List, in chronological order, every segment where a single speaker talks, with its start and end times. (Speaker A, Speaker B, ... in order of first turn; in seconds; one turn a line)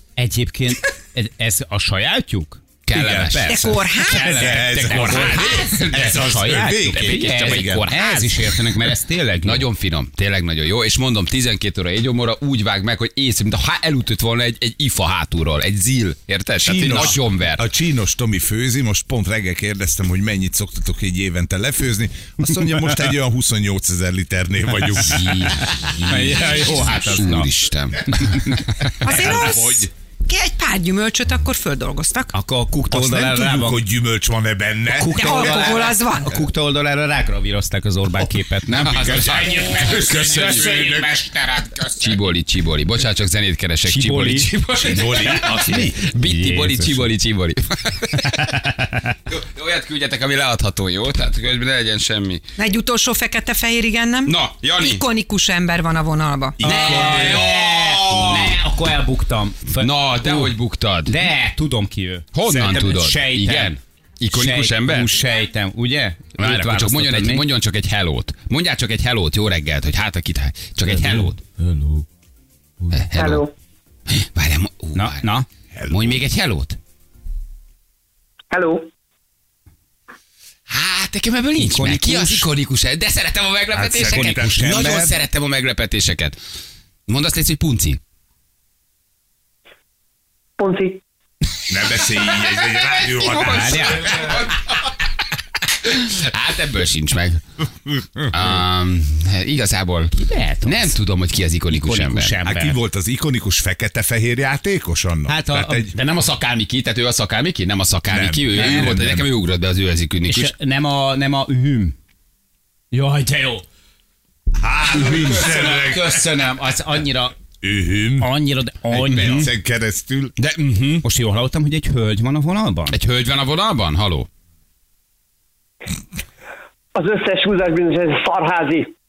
Speaker A: 0.2-9.7
Speaker B: 2.9-6.2
Speaker C: 2.9-7.8
Speaker D: 3.5-4.5
Speaker B: 6.7-8.4
Speaker B: 9.4-17.7
Speaker C: 16.6-25.6
Speaker B: 24.9-29.8
Speaker A: 25.9-27.5
Speaker A: 28.1-28.6
Speaker D: 29.0-32.3
Speaker A: 32.3-33.8
Speaker C: 32.9-35.7
Speaker A: 34.9-42.1
Speaker D: 35.1-36.4
Speaker B: 38.7-40.7
Speaker C: 39.0-41.2
Speaker B: 42.0-48.5
Speaker A: 43.9-47.0
Speaker C: 44.8-46.0
Speaker A: 48.2-49.1
Speaker B: 49.3-52.4
Speaker D: 52.6-56.6
Speaker B: 54.2-55.0
Speaker C: 56.6-57.5
Speaker A: 56.6-60.5
Speaker B: 56.6-58.6
Speaker B: 59.8-61.2
Speaker A: 61.1-63.7
Speaker B: 62.3-65.1
Speaker A: 64.3-67.4
Speaker B: 66.4-71.4
Speaker B: 72.9-73.5
Speaker E: 73.1-73.5
Speaker B: 74.1-75.2
Speaker A: 74.9-75.5
Speaker C: 75.7-76.1
Speaker B: 75.9-76.8
Speaker E: 78.5-78.9
Speaker B: 80.7-86.3
Speaker A: 81.6-82.5
Speaker C: 83.8-85.1
Speaker A: 83.9-85.0
Speaker B: 87.1-88.0
Speaker E: 90.6-91.0
Speaker C: 91.7-94.4
Speaker B: 92.3-94.9
Speaker A: 93.5-94.2
Speaker B: 95.8-97.4
Speaker B: 98.3-100.1
Speaker A: 100.1-100.9
Speaker B: 100.6-102.4
Speaker A: 101.7-102.8
Speaker C: 102.4-105.9
Speaker A: 105.3-105.9
Speaker B: 105.9-110.5
Speaker C: 108.1-109.3
Speaker A: 108.5-109.0
Speaker A: 110.2-111.9
Speaker A: 112.9-113.6
Speaker C: 114.6-116.2
Speaker A: 115.0-117.3
Speaker C: 117.6-118.3
Speaker A: 118.2-119.5
Speaker C: 118.9-120.3
Speaker B: 119.1-119.5
Speaker B: 120.4-121.0
Speaker A: 121.0-123.0
Speaker B: 122.9-124.3
Speaker E: 126.9-128.9